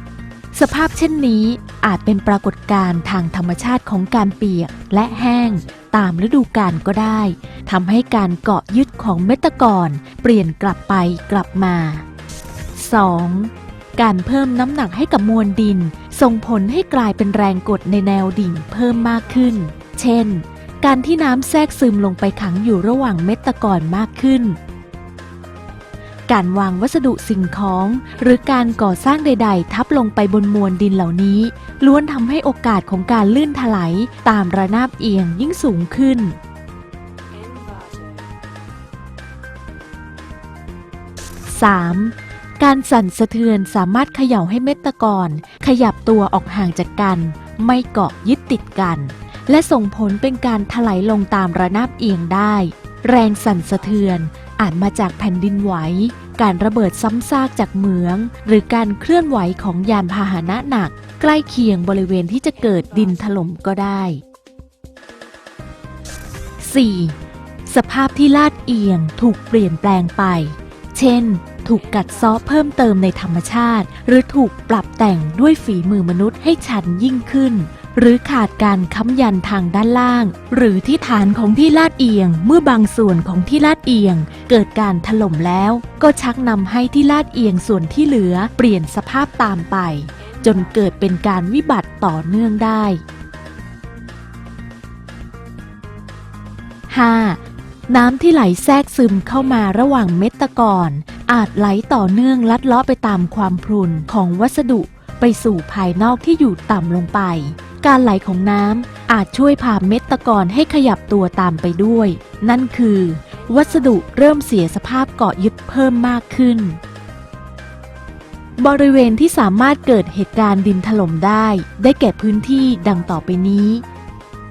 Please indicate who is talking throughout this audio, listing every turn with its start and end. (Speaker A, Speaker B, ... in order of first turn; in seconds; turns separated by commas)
Speaker A: 0.5-12.0, Speaker A: 12.8-24.6, Speaker A: 26.3-36.4, Speaker A: 41.5-64.2, Speaker A: 66.6-93.0, Speaker A: 96.9-116.8, Speaker A: 118.6-123.8